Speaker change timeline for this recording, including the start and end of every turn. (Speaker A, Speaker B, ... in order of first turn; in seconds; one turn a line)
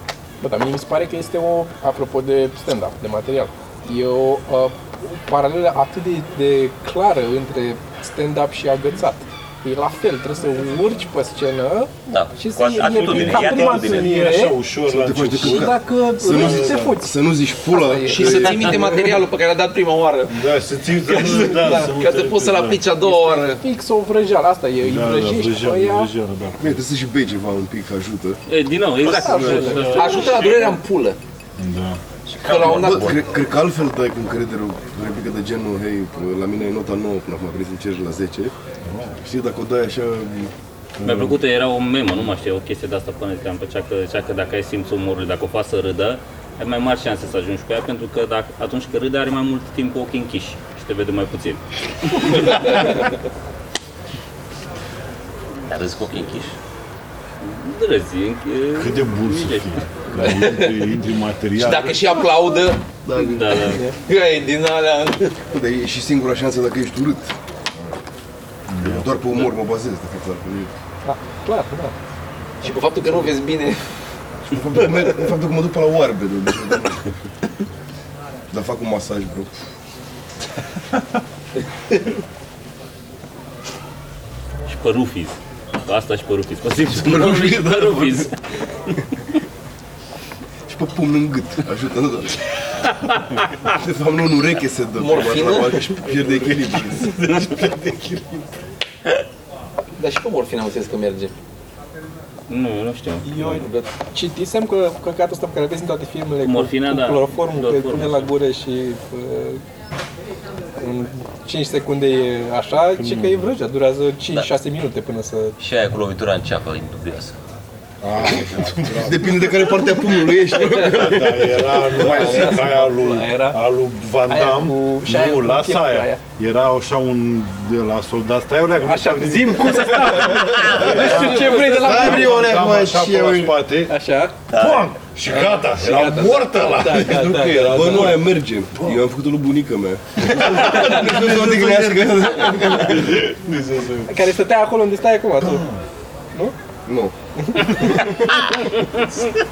Speaker A: 0.4-14.6
Speaker B: 12.1-14.2
Speaker C: 12.8-16.9
Speaker D: 14.8-19.2
Speaker A: 15.4-18.8
Speaker E: 18.1-23.6
Speaker C: 20.3-22.8
Speaker A: 23.0-26.1
Speaker C: 24.8-26.8
Speaker D: 26.6-28.4
Speaker F: 28.5-30.5
Speaker B: 29.0-29.4
Speaker A: 29.1-30.0
Speaker D: 29.3-29.7
Speaker E: 29.4-31.2
Speaker B: 29.9-30.8
Speaker C: 31.6-32.0
Speaker B: 32.3-33.2
Speaker E: 32.4-33.1
Speaker D: 32.6-38.5
Speaker C: 38.8-39.2
Speaker D: 39.2-40.5
Speaker C: 41.0-41.4
Speaker F: 41.0-53.0
Speaker B: 55.7-56.5
Speaker F: 57.4-60.3
Speaker C: 58.7-62.0
Speaker E: 60.1-60.9
Speaker E: 61.6-62.8
Speaker D: 63.0-63.6
Speaker F: 63.2-63.8
Speaker E: 63.5-65.3
Speaker A: 63.7-64.0
Speaker D: 65.5-67.9
Speaker C: 68.7-69.1
Speaker D: 68.8-70.7
Speaker A: 71.0-71.9
Speaker E: 72.6-73.8
Speaker D: 74.5-77.0
Speaker D: 78.5-79.5
Speaker F: 84.7-88.3
Speaker D: 86.8-88.3
Speaker D: 90.7-92.4
Speaker D: 93.7-98.4
Speaker E: 95.0-96.0
Speaker E: 100.0-101.3
Speaker F: 102.5-103.7
Speaker A: 103.2-109.6
Speaker E: 103.5-103.9
Speaker F: 106.4-108.3
Speaker A: 110.8-115.6
Speaker C: 112.9-113.5
Speaker B: 115.6-117.4
Speaker C: 118.0-119.5
Speaker D: 118.3-121.8
Speaker C: 120.7-133.9
Speaker A: 121.7-123.6
Speaker A: 124.3-126.2
Speaker A: 128.8-132.6
Speaker D: 130.4-133.6
Speaker A: 133.8-134.4
Speaker B: 134.5-134.9
Speaker C: 134.5-139.0
Speaker A: 135.3-138.1
Speaker D: 137.4-143.2
Speaker C: 140.2-144.1
Speaker A: 144.1-145.7
Speaker C: 145.4-145.8
Speaker D: 146.9-147.1
Speaker A: 147.4-148.0
Speaker D: 147.7-148.2